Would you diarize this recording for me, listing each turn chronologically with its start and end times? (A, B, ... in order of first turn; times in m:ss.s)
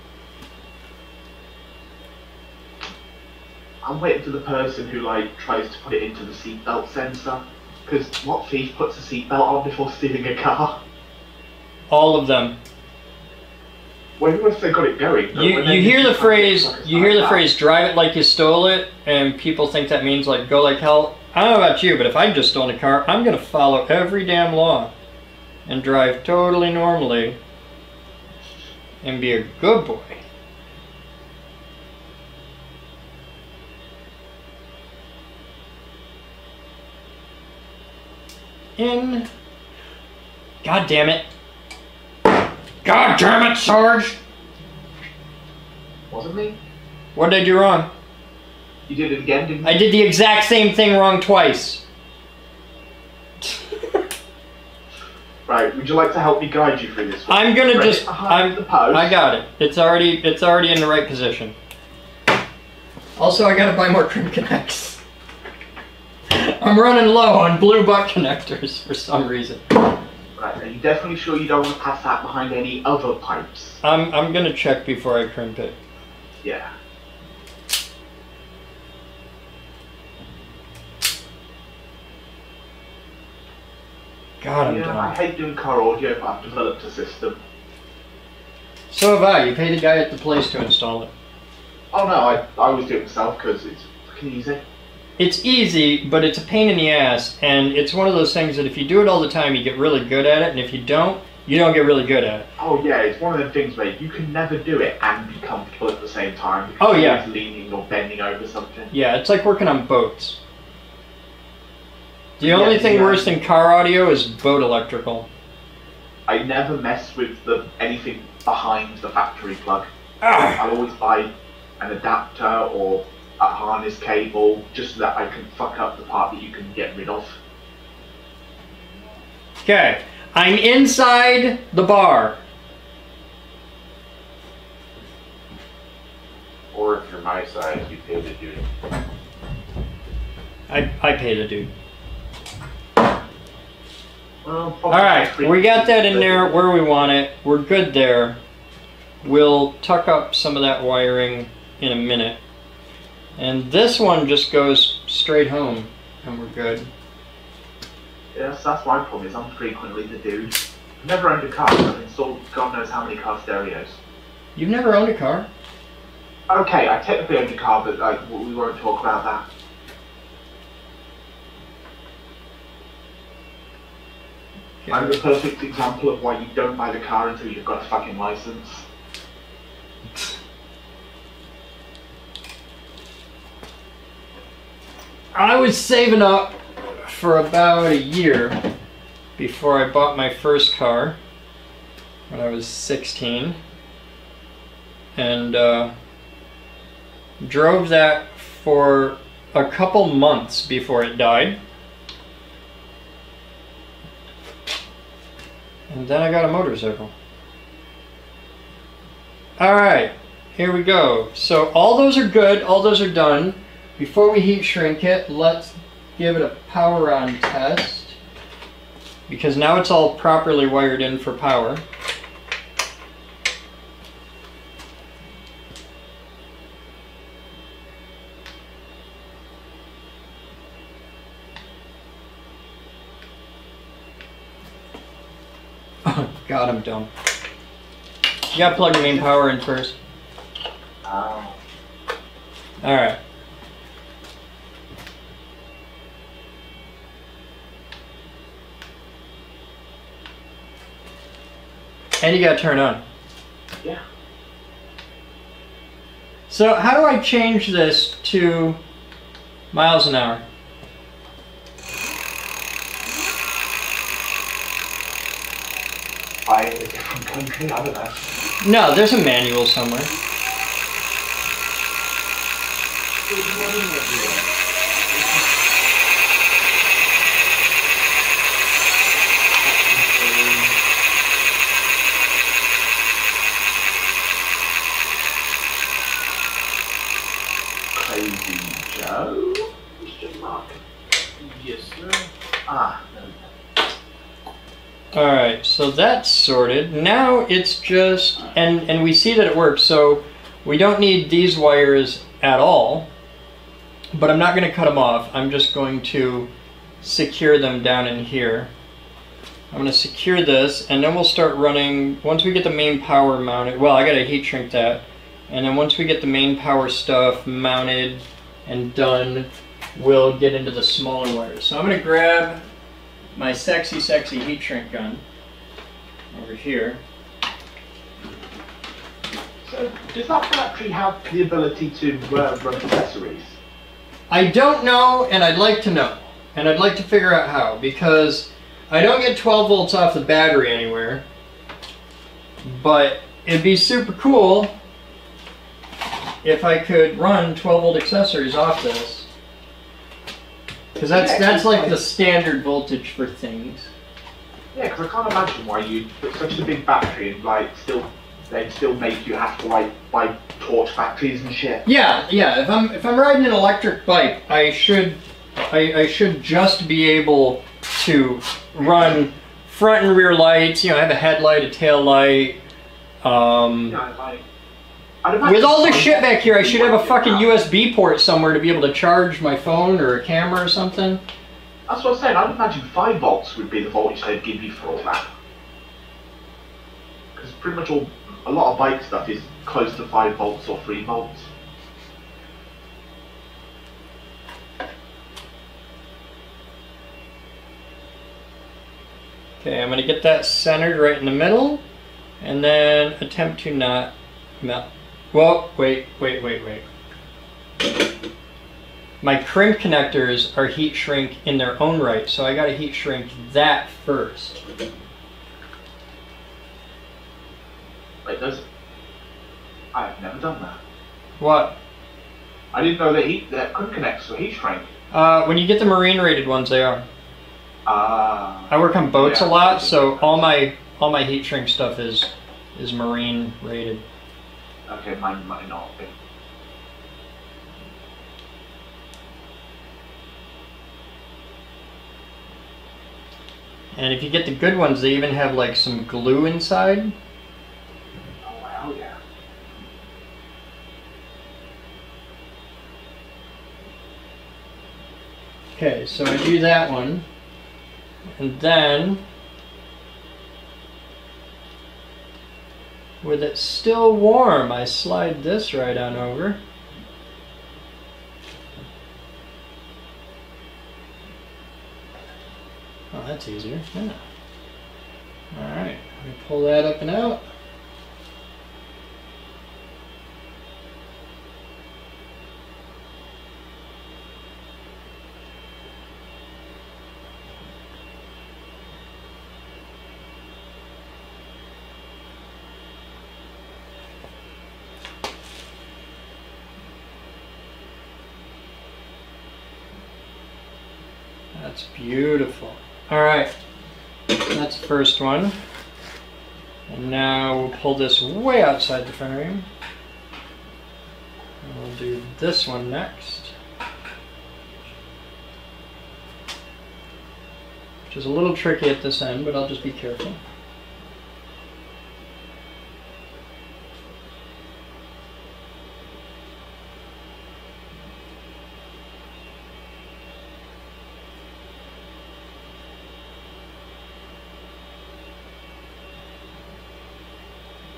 0:03.8-0:10.8 A
0:11.9-0:12.6 B
0:14.2-0:17.4 A
0:15.3-0:24.9 B
0:25.7-0:27.4 B
0:29.0-0:30.2 B
0:38.8-0:39.3 B
0:40.6-0:41.2 B
0:42.8-0:44.2 B
0:46.1-0:46.6 A
0:47.2-0:47.9 B
0:48.9-0:49.9 A
0:49.6-0:51.8 B
0:53.4-0:54.0 B
0:55.5-0:59.2 A
0:57.3-1:01.6 B
1:03.2-1:05.0 B
1:06.3-1:09.6 B
1:10.4-1:13.8 A
1:13.8-1:15.8 B
1:16.4-1:16.7 A
1:24.4-1:25.2 B
1:24.6-1:27.4 A
1:28.9-1:31.1 B
1:31.9-1:34.6 A
1:35.2-1:42.5 B
1:42.6-1:48.9 A
1:46.8-1:47.2 B
1:48.9-1:50.4 B
1:52.4-1:55.3 B
1:52.4-1:53.3 A
1:56.3-2:07.4 A
2:00.2-2:00.6 B
2:09.6-2:12.4 B
2:16.7-2:18.6 C
2:20.7-2:21.7 B
2:24.4-2:26.6 A
2:24.9-2:28.4 B
2:29.2-2:32.4 B
2:33.4-2:36.9 B
2:38.3-2:44.0 A
2:44.6-2:45.5 B
2:46.5-2:49.4 A
2:54.8-2:55.2 B
2:54.9-2:58.8 A
3:05.3-3:08.6 B
3:09.4-3:11.2 B
3:12.3-3:13.6 B
3:15.2-3:15.9 B
3:17.4-3:21.6 B
3:25.9-3:27.1 B
3:29.6-3:38.2 B
3:39.3-3:41.8 B
3:56.0-3:57.1 B
3:58.5-4:00.0 B
3:58.8-3:59.3 A
4:01.0-4:01.6 A
4:02.8-4:03.2 B
4:12.2-4:13.0 B
4:16.5-4:18.8 B
4:19.7-4:20.4 B
4:26.4-4:28.2 A
4:28.6-4:30.1 B
4:33.3-4:34.5 A
4:39.7-4:40.7 A
4:47.9-4:50.8 A
4:51.4-4:53.5 A
4:55.1-5:03.1 B
5:04.1-5:06.5 B
5:07.0-5:08.7 B
5:09.7-5:22.6 B
5:23.4-5:25.2 B
5:26.3-5:27.0 B
5:29.6-5:33.6 A
5:34.3-5:41.2 B
5:42.6-5:44.8 B
5:46.4-5:49.3 B
5:51.0-5:53.9 B
5:51.1-5:52.0 A
5:54.7-6:01.8 A
6:01.8-6:12.6 B
6:13.2-6:14.0 B
6:13.9-6:14.4 A
6:15.2-6:17.5 A
6:15.4-6:21.2 B
6:21.9-6:25.3 A
6:27.4-6:31.5 A
6:39.6-6:41.8 B
6:42.4-6:46.8 B
6:49.2-6:54.6 B
6:58.2-6:58.6 A
6:59.9-7:00.8 A
7:01.4-7:01.8 B
7:02.7-7:04.9 A
7:05.1-7:07.0 B
7:07.9-7:10.5 A
7:08.7-7:14.0 B
7:14.9-7:16.2 A
7:23.9-7:27.1 B
7:28.4-7:29.2 A
7:35.8-7:37.2 B
7:38.4-7:39.2 B
7:43.2-7:46.6 B
7:53.1-7:54.2 B
7:55.5-7:57.4 B
8:21.6-8:23.5 B
8:24.3-8:25.6 B
8:26.9-8:29.7 B
8:31.6-8:33.5 B
8:38.1-8:40.4 B